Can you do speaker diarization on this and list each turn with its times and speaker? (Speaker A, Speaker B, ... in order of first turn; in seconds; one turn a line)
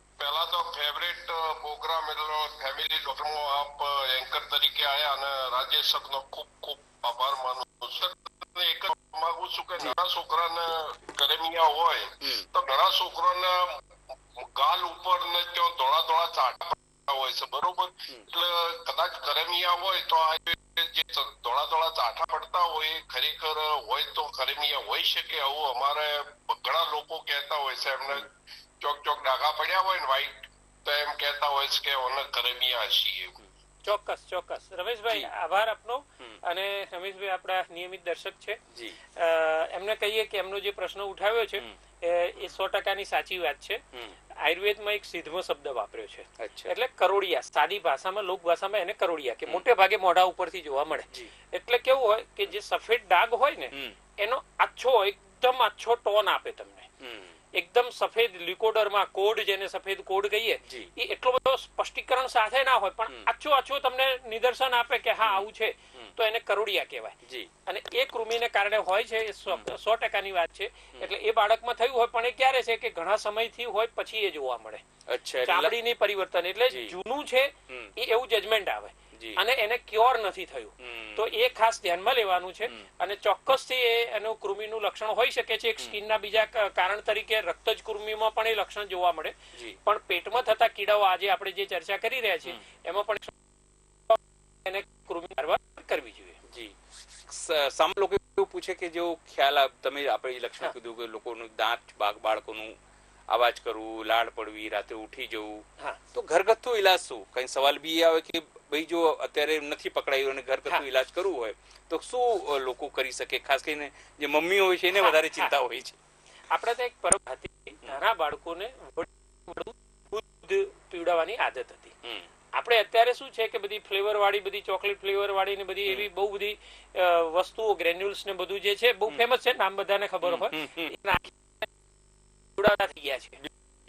Speaker A: 0.2-13.8
Speaker A: 14.4-28.3
Speaker A: 28.8-33.4
Speaker B: 33.8-38.6
Speaker C: 38.7-39.0
Speaker B: 39.1-43.8
Speaker B: 44.4-56.9
Speaker C: 46.4-46.7
Speaker C: 57.0-57.3
Speaker B: 57.5-74.8
Speaker C: 75.1-75.7
Speaker B: 75.5-93.3
Speaker C: 76.7-76.9
Speaker C: 79.1-79.4
Speaker C: 80.8-81.3
Speaker B: 94.1-96.4
Speaker C: 96.5-96.7
Speaker C: 97.3-102.8
Speaker C: 103.3-116.0
Speaker B: 114.9-115.5
Speaker B: 116.5-121.9
Speaker B: 122.5-131.7
Speaker C: 130.2-130.9
Speaker B: 132.6-133.4